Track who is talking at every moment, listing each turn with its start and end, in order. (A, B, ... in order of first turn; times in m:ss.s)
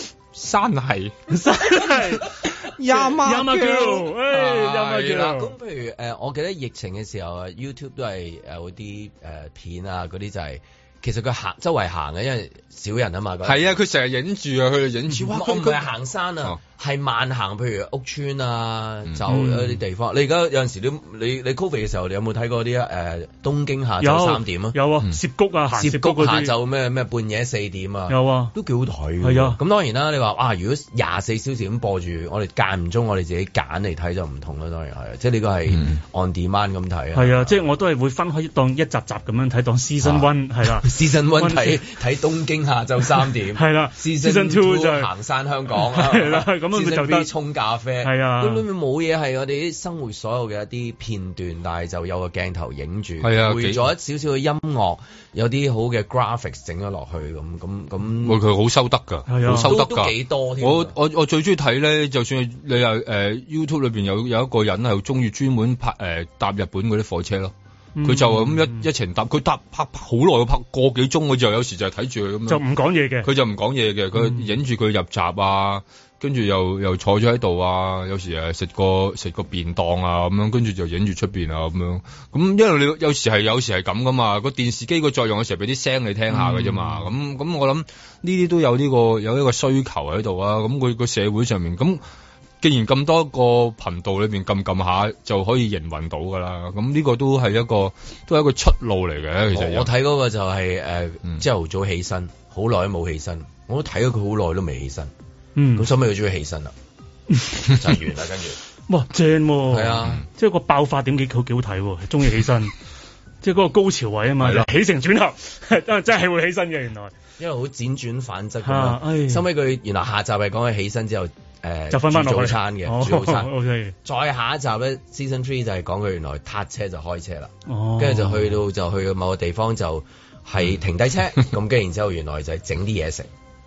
0:00.3-0:01.2 A
0:01.3-0:02.3 B
0:02.4-0:05.3 A
0:02.9-0:05.5 B
0:04.8-0:13.7 C
0:13.4-0:15.9 A
0:15.3-0:24.8 C
0:19.3-0:19.8 B
0:24.0-0:26.5 B
0:25.7-0:37.6 C
0:28.1-0:28.5 B
0:29.2-0:29.6 B
0:37.2-0:41.8 B
0:40.7-0:58.4 C
0:43.6-0:45.1 B
0:45.8-0:47.3 B
0:48.0-0:48.6 B
0:53.2-0:53.9 A
0:58.2-1:12.6 A
0:59.3-0:59.7 B
0:59.4-1:01.0 C
1:08.0-1:08.9 B
1:12.5-1:13.3 B
1:13.2-1:32.0 A
1:14.2-1:14.5 B
1:26.3-1:27.1 B
1:32.6-1:39.9 A
1:39.5-1:45.1 C
1:45.6-1:45.9 B
1:45.8-1:46.7 C
1:47.4-1:47.7 B
1:47.7-1:48.6 C
1:48.9-1:52.7 B
1:49.7-1:50.2 C
1:53.4-1:57.1 B
1:54.4-1:54.7 A
1:57.4-2:03.5 C
1:58.6-1:59.4 B
2:01.9-2:04.0 B
2:04.0-2:13.3 C
2:07.7-2:08.6 B